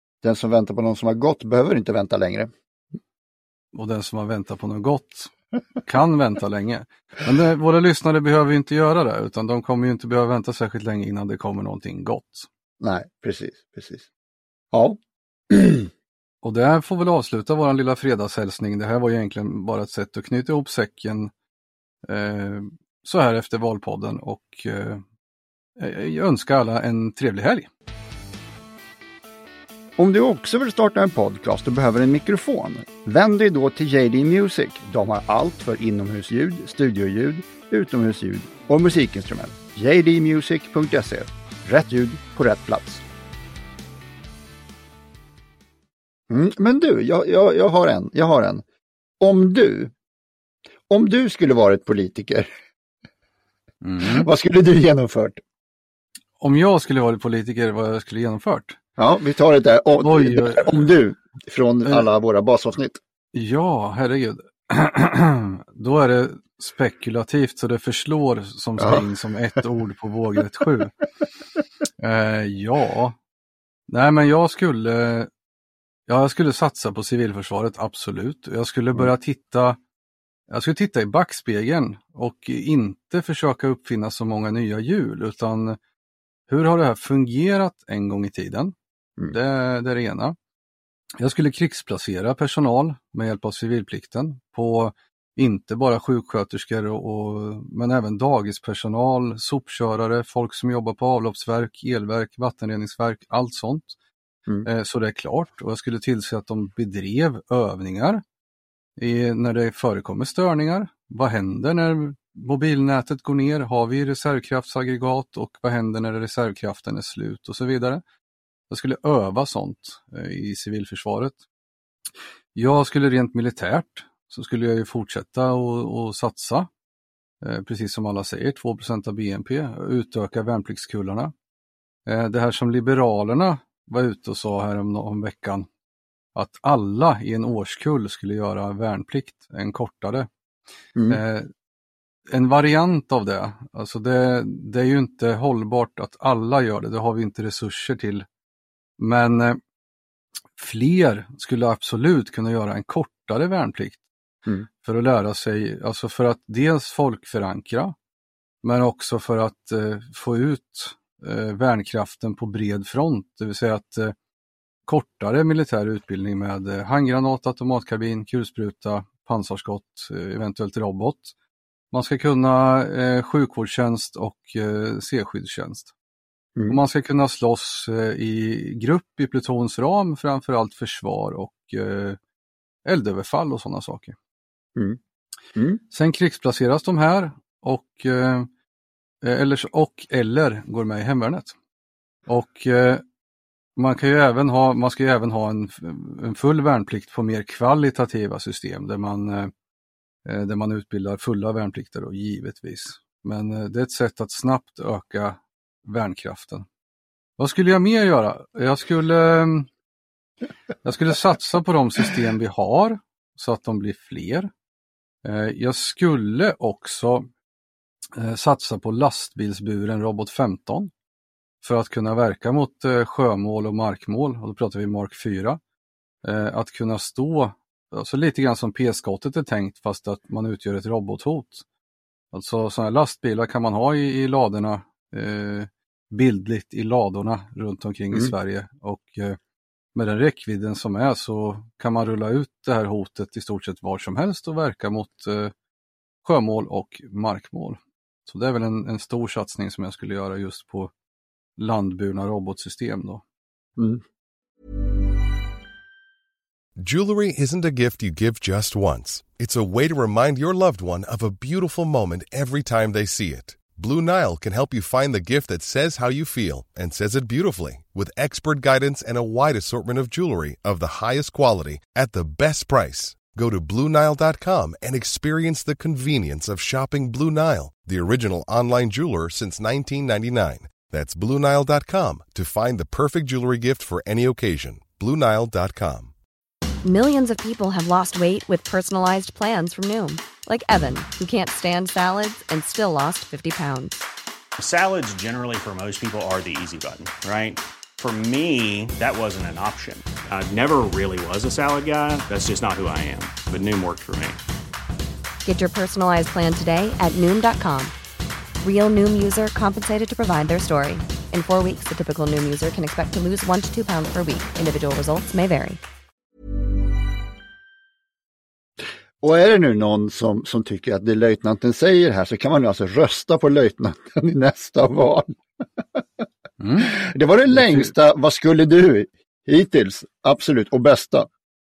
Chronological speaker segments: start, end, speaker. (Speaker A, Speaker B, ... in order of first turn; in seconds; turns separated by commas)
Speaker A: 0.2-2.5, Speaker B: 3.7-5.3, Speaker B: 5.8-12.5, Speaker A: 12.8-14.1, Speaker A: 14.7-15.0, Speaker A: 15.5-15.9, Speaker B: 16.4-21.3, Speaker B: 22.0-25.0, Speaker B: 25.8-27.7, Speaker A: 30.0-43.0, Speaker A: 46.3-48.6, Speaker A: 49.2-49.9, Speaker A: 50.9-52.5, Speaker B: 53.8-54.3, Speaker A: 54.0-55.4, Speaker B: 56.4-58.8, Speaker A: 59.0-63.0, Speaker B: 60.0-60.9, Speaker B: 63.3-70.9, Speaker A: 68.8-69.0, Speaker B: 72.0-73.2, Speaker B: 73.9-75.3, Speaker B: 76.1-79.8, Speaker B: 80.5-85.8, Speaker B: 86.5-88.7, Speaker B: 89.3-90.3, Speaker B: 91.2-104.0, Speaker B: 104.6-108.2, Speaker B: 109.0-118.0, Speaker B: 118.7-121.4, Speaker B: 122.5-126.7, Speaker B: 127.4-131.3, Speaker B: 132.1-135.7, Speaker B: 136.3-140.3, Speaker A: 140.9-141.2, Speaker B: 141.1-141.5, Speaker B: 142.3-148.2, Speaker B: 149.0-149.6, Speaker B: 150.6-154.0, Speaker B: 154.8-157.9, Speaker B: 158.6-164.1, Speaker B: 164.8-171.3, Speaker B: 171.9-175.9, Speaker B: 176.7-182.2, Speaker B: 182.8-184.1, Speaker A: 185.5-185.8, Speaker B: 185.9-188.5, Speaker B: 189.2-191.5, Speaker B: 192.3-193.0, Speaker B: 193.8-199.5, Speaker B: 200.2-206.7, Speaker B: 207.4-209.7, Speaker B: 210.8-214.5, Speaker B: 215.2-217.3, Speaker B: 218.2-220.9, Speaker B: 221.6-225.6, Speaker B: 226.2-231.7, Speaker B: 232.3-239.4, Speaker B: 239.9-245.5, Speaker B: 246.2-250.9, Speaker B: 251.6-253.2, Speaker C: 256.8-286.1, Speaker D: 286.8-294.0, Speaker E: 294.6-304.4, Speaker D: 305.4-307.9, Speaker D: 308.6-315.8, Speaker A: 319.2-325.3, Speaker A: 325.8-326.2, Speaker B: 326.6-326.9, Speaker A: 326.8-331.3, Speaker B: 327.5-327.9